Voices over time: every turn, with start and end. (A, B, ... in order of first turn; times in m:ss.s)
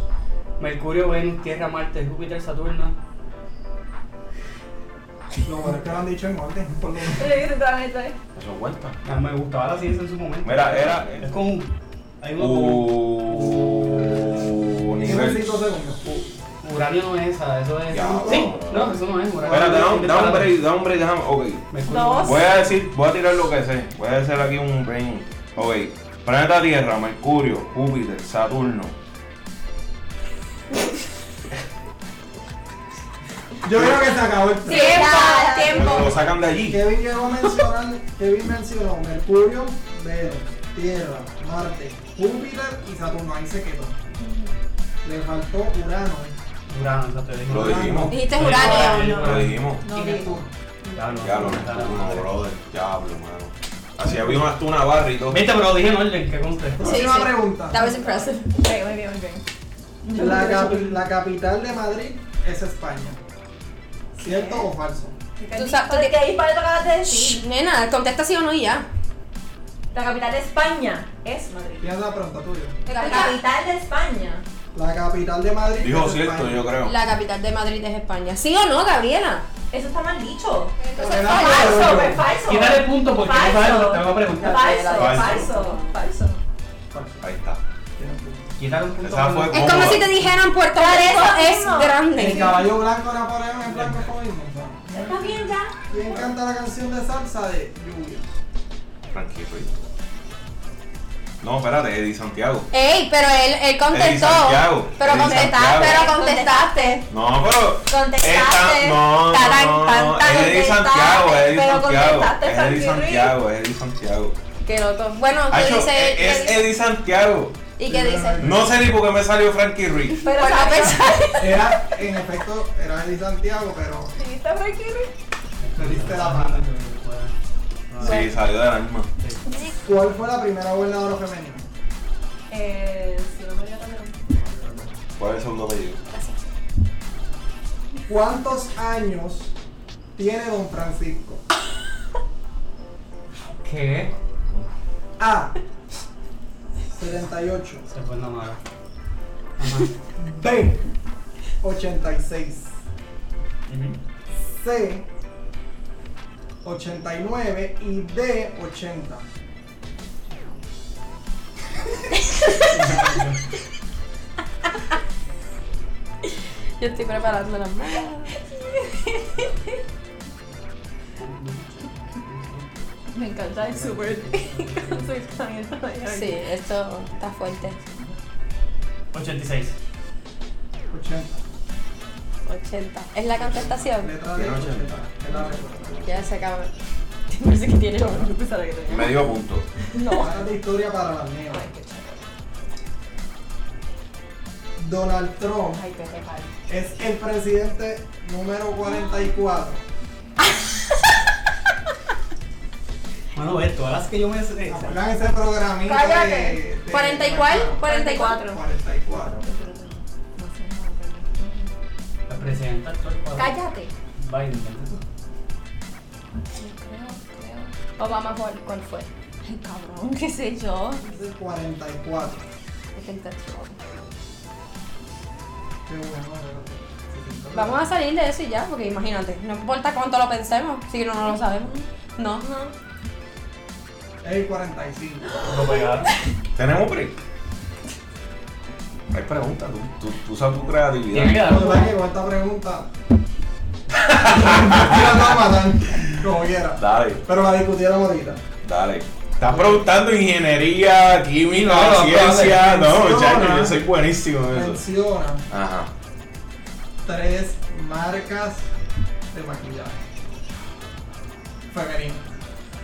0:00.6-0:02.9 A
0:05.4-0:07.4 B
0:07.1-0:08.2 C
0:08.3-0:09.0 D
0:09.0-0:14.1 A
0:10.4-0:11.3 D
0:12.4-0:15.5 D
0:15.0-0:16.0 B
0:16.0-0:20.6 A
0:17.9-0:21.6 D
0:17.9-0:18.6 B
0:21.7-0:22.6 A
0:21.8-0:22.5 C
0:22.2-0:28.9 D
0:33.6-0:35.2 B
0:33.7-0:34.0 D
0:34.6-0:36.0 C
0:34.6-0:36.1 E
0:35.7-0:36.8 D
0:36.7-0:44.0 B
0:44.2-0:44.5 C
0:45.0-0:46.3 B
0:46.7-0:50.0 A
0:47.5-0:48.2 D
0:47.5-0:48.2 B
0:48.1-0:49.2 E
0:48.4-0:51.4 C
0:49.1-0:49.9 D
0:49.9-0:50.5 B
0:50.9-0:52.3 A
0:51.2-0:55.5 D
0:55.3-0:57.0 A
0:56.8-0:57.9 B
0:56.8-0:58.5 E
0:57.7-0:59.4 C
1:00.0-1:01.0 C
1:00.1-1:03.2 B
1:04.2-1:05.2 B
1:04.2-1:04.7 C
1:05.4-1:07.4 C
1:05.5-1:06.2 E
1:07.0-1:08.8 E
1:09.9-1:11.9 C
1:11.8-1:12.8 B
1:12.9-1:13.4 E
1:12.9-1:14.4 C
1:14.7-1:16.7 B
1:15.8-1:16.9 D
1:16.8-1:19.4 E
1:19.7-1:26.4 C
1:20.8-1:22.1 E
1:20.9-1:22.2 B
1:22.4-1:24.6 A
1:24.3-1:26.0 E
1:24.9-1:25.5 D
1:26.9-1:27.2 B
1:27.2-1:27.6 D
1:28.0-1:28.5 B
1:28.6-1:30.2 A
1:29.0-1:30.1 D
1:29.5-1:32.5 E
1:30.7-1:32.6 C
1:32.1-1:38.2 B
1:33.7-1:34.1 A
1:34.9-1:36.3 C
1:39.1-1:39.7 D
1:41.4-1:42.7 D
1:42.7-1:46.7 E
1:43.9-1:46.0 D
1:45.1-1:47.0 C
1:47.1-1:54.4 D
1:47.8-1:53.3 C
1:54.6-1:56.7 E
1:55.5-1:57.6 D
1:57.8-1:58.6 E
1:57.8-1:58.6 B
1:58.4-2:00.2 D
2:00.1-2:01.6 E
2:00.2-2:01.1 C
2:01.4-2:04.1 B
2:04.2-2:05.1 C
2:05.6-2:07.3 A
2:05.8-2:06.6 B
2:07.9-2:08.3 A
2:08.0-2:08.3 E
2:08.0-2:09.1 D
2:09.8-2:11.6 B
2:12.5-2:14.3 C
2:14.4-2:14.9 B
2:15.2-2:16.0 D
2:18.0-2:19.5 B
2:20.1-2:21.4 B
2:23.6-2:24.1 A
2:25.2-2:25.6 B
2:26.9-2:27.8 B
2:27.8-2:28.6 A
2:29.6-2:29.9 A
2:30.2-2:30.8 B
2:31.6-2:32.7 B
2:33.7-2:34.0 A
2:34.6-2:35.0 B
2:36.6-2:39.2 B
2:42.4-2:42.7 E
2:42.7-2:43.4 B
2:46.8-2:48.3 E
2:48.5-2:49.2 C
2:51.2-2:52.8 A
2:53.1-2:56.5 C
2:53.6-2:55.4 A
2:56.0-2:57.8 E
2:59.1-2:59.8 A
3:00.9-3:01.4 B
3:02.4-3:04.1 E
3:03.3-3:06.0 B
3:04.3-3:06.4 D
3:06.0-3:06.8 E
3:07.3-3:08.3 E
3:08.0-3:09.2 C
3:08.9-3:09.7 D
3:09.9-3:10.4 C
3:10.1-3:11.7 B
3:11.5-3:12.2 C
3:14.8-3:15.8 B
3:15.7-3:16.5 C
3:16.7-3:19.8 B
3:18.8-3:19.3 C
3:23.3-3:25.0 A
3:24.7-3:29.4 B
3:25.8-3:26.6 C
3:26.9-3:28.4 E
3:27.8-3:28.6 C
3:29.2-3:31.7 C
3:32.3-3:33.6 A
3:33.4-3:33.9 C
3:34.2-3:35.0 A
3:36.5-3:37.7 C
3:38.0-3:39.1 E
3:39.4-3:41.0 C
3:41.0-3:42.4 B
3:43.0-3:43.7 E
3:45.9-3:47.9 B
3:47.5-3:52.7 E
3:54.2-3:55.5 B
3:55.4-3:56.1 A
3:56.5-3:57.2 D
3:59.1-4:01.5 D
4:01.1-4:01.9 A
4:01.4-4:02.9 B
4:03.9-4:05.4 D
4:04.2-4:08.4 B
4:06.8-4:07.2 D
4:08.6-4:14.8 D
4:09.5-4:09.9 B
4:11.5-4:13.8 B
4:14.5-4:15.4 B
4:15.5-4:15.9 D
4:17.0-4:18.6 B
4:19.3-4:20.0 B
4:21.7-4:22.3 B